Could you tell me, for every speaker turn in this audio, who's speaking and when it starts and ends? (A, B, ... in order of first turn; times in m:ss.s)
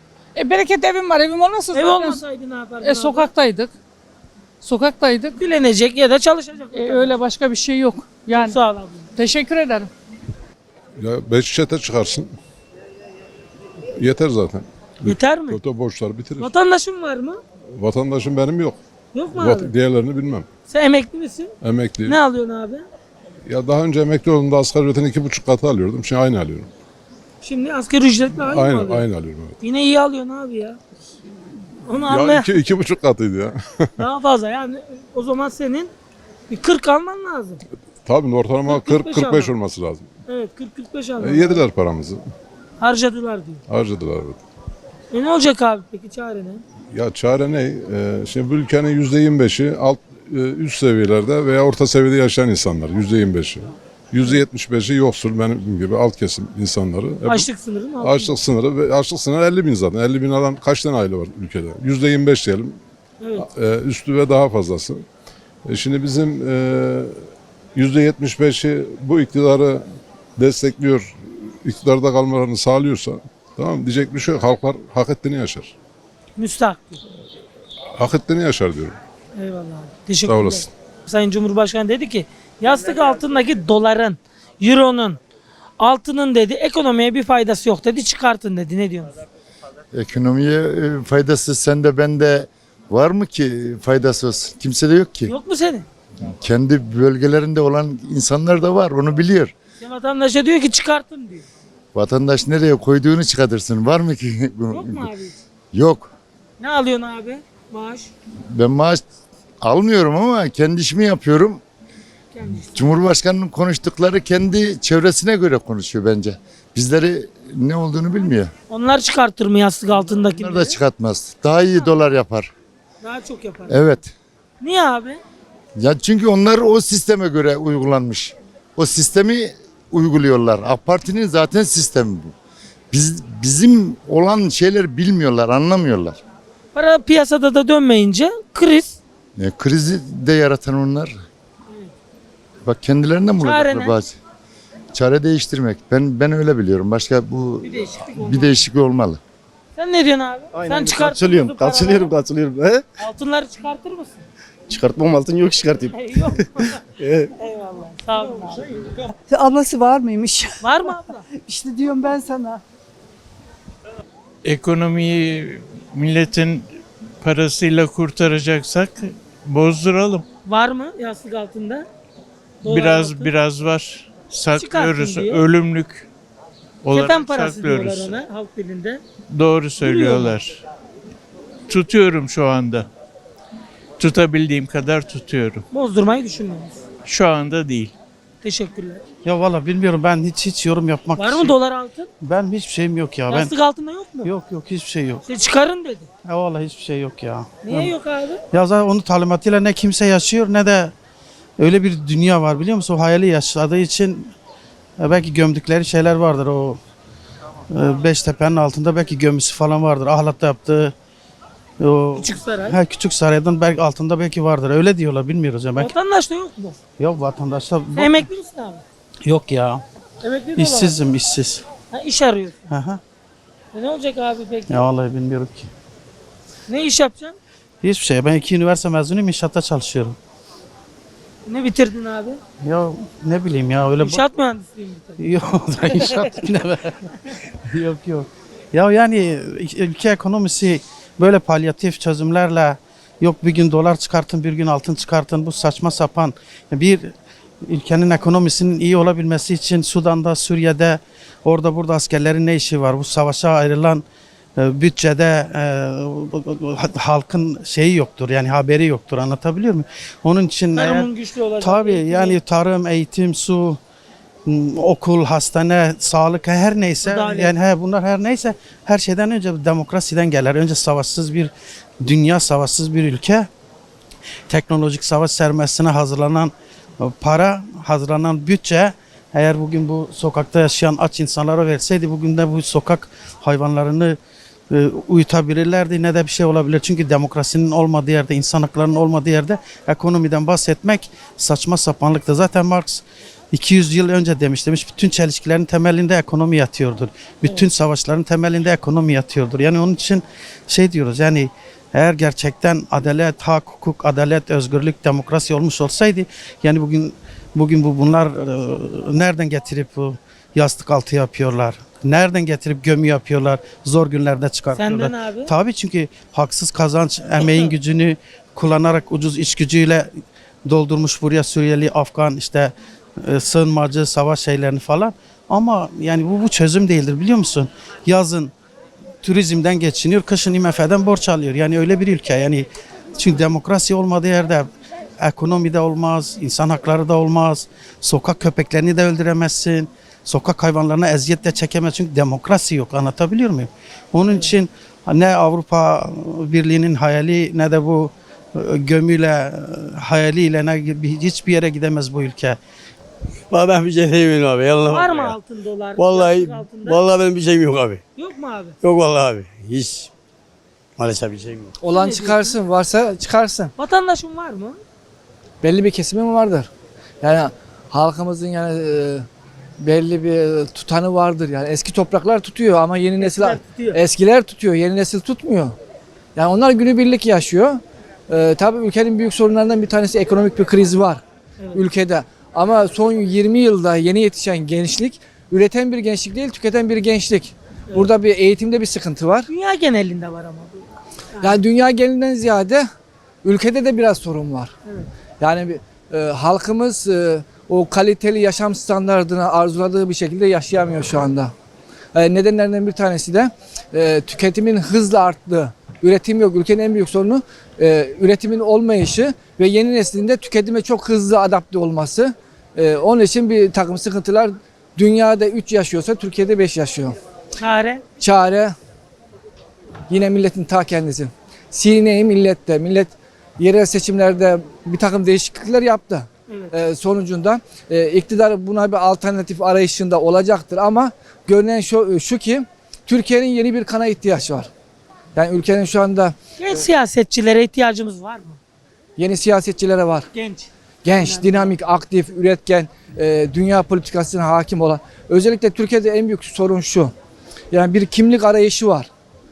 0:00.4-0:02.2 A
0:01.7-0:03.3 B
0:02.8-0:03.7 A
0:04.6-0:05.4 A
0:05.4-0:07.2 B
0:06.7-0:08.6 A
0:08.3-0:09.1 B
0:09.1-0:09.9 A
0:11.0-0:12.3 C
0:14.0-0:16.5 C
0:15.0-0:15.6 B
0:16.4-0:17.4 B
0:17.8-0:18.8 C
0:19.1-0:19.7 B
0:19.3-0:20.5 C
0:20.7-0:22.8 B
0:21.6-0:22.2 C
0:23.5-0:26.7 C
0:27.4-0:29.0 B
0:28.4-0:29.6 C
0:29.6-0:30.8 B
0:31.8-0:32.5 B
0:32.1-0:33.8 C
0:34.0-0:35.9 B
0:36.5-0:37.6 B
0:38.0-0:40.1 C
0:38.7-0:39.5 B
0:40.3-0:41.6 B
0:41.2-0:42.2 C
0:42.8-0:43.6 B
0:43.7-0:44.4 C
0:45.1-0:46.6 B
0:46.9-0:57.5 C
0:57.2-0:58.4 B
0:58.0-1:02.8 C
1:03.2-1:03.4 B
1:03.4-1:05.0 C
1:05.6-1:07.2 C
1:07.7-1:09.8 C
1:10.4-1:15.7 C
1:16.4-1:17.0 B
1:18.0-1:19.0 C
1:19.4-1:25.2 B
1:20.2-1:20.7 C
1:25.8-1:29.2 B
1:29.9-1:35.3 D
1:35.2-1:35.8 B
1:36.3-1:39.5 D
1:39.8-1:41.4 B
1:41.9-1:45.1 D
1:44.7-1:45.4 B
1:45.7-1:46.1 D
1:46.6-1:48.1 B
1:48.5-1:49.0 D
1:49.6-1:51.6 D
1:52.3-1:52.9 B
1:52.7-1:58.5 D
1:58.7-2:00.8 B
2:00.1-2:02.5 D
2:03.0-2:03.9 B
2:03.7-2:04.1 D
2:04.6-2:05.2 B
2:05.8-2:12.3 D
2:12.9-2:16.2 D
2:16.7-2:19.0 B
2:19.4-2:21.1 D
2:22.6-2:24.2 D
2:23.4-2:24.0 B
2:24.9-2:29.2 D
2:27.6-2:28.6 B
2:29.8-2:32.1 B
2:30.6-2:32.8 E
2:33.0-2:34.2 B
2:34.7-2:35.9 E
2:35.9-2:36.8 B
2:37.0-2:37.3 E
2:37.4-2:38.8 B
2:39.3-2:42.6 F
2:40.6-2:41.2 B
2:44.4-2:46.7 G
2:47.2-2:50.2 G
2:50.4-2:51.9 B
2:52.6-2:53.3 B
2:52.6-2:56.1 G
2:54.5-2:55.4 B
2:56.8-2:58.2 G
2:56.9-2:59.0 B
2:59.3-3:00.6 G
2:59.8-3:00.3 B
3:01.7-3:02.9 G
3:04.0-3:05.6 G
3:05.7-3:06.8 B
3:07.0-3:07.9 G
3:08.4-3:09.0 B
3:09.2-3:11.5 H
3:11.2-3:12.1 B
3:12.2-3:13.5 H
3:13.3-3:14.3 B
3:14.2-3:15.2 H
3:15.2-3:16.1 B
3:16.2-3:17.9 H
3:17.6-3:18.4 B
3:18.5-3:20.9 H
3:21.6-3:24.3 H
3:25.0-3:26.8 H
3:27.7-3:30.9 H
3:31.8-3:35.9 H
3:32.2-3:32.8 B
3:35.8-3:36.8 B
3:37.0-3:38.3 H
3:37.9-3:38.8 B
3:39.2-3:39.8 H
3:40.2-3:41.0 B
3:40.6-3:41.6 H
3:41.9-3:42.6 B
3:42.7-3:43.0 H
3:43.7-3:44.8 B
3:44.7-3:45.7 H
3:46.7-3:47.4 B
3:47.8-3:50.2 H
3:51.4-3:52.4 B
3:52.6-3:54.2 H
3:54.0-3:55.2 B
3:55.2-3:57.1 H
3:57.7-4:07.1 H
4:07.6-4:14.0 H
4:14.6-4:21.1 H
4:20.8-4:22.4 B
4:21.6-4:23.8 H
4:24.4-4:33.5 H
4:27.0-4:27.5 B
4:34.5-4:44.2 H
4:44.7-5:20.1 H
5:14.7-5:15.5 B
5:20.6-5:28.5 H
5:29.2-5:34.7 H
5:35.2-5:52.6 H
5:53.5-5:55.3 E
5:54.9-5:57.0 B
5:56.0-5:58.0 E
5:58.2-5:58.8 B
5:58.8-6:00.1 E
6:01.0-6:01.7 E
6:01.8-6:03.7 I
6:01.9-6:02.6 B
6:03.8-6:04.8 B
6:05.6-6:06.7 I
6:07.2-6:09.2 I
6:09.8-6:15.7 I
6:13.2-6:14.0 B
6:16.4-6:21.2 I
6:21.7-6:29.5 I
6:29.5-6:31.6 B
6:31.4-6:32.9 I
6:33.4-6:34.7 I
6:35.4-6:41.5 I
6:42.1-6:57.2 I
6:57.6-6:58.0 B
6:58.2-6:58.7 I
7:00.1-7:14.7 I
7:15.3-7:16.4 I
7:16.6-7:18.6 B
7:19.2-7:20.3 I
7:20.3-7:21.7 B
7:21.0-7:27.1 I
7:27.7-7:29.1 I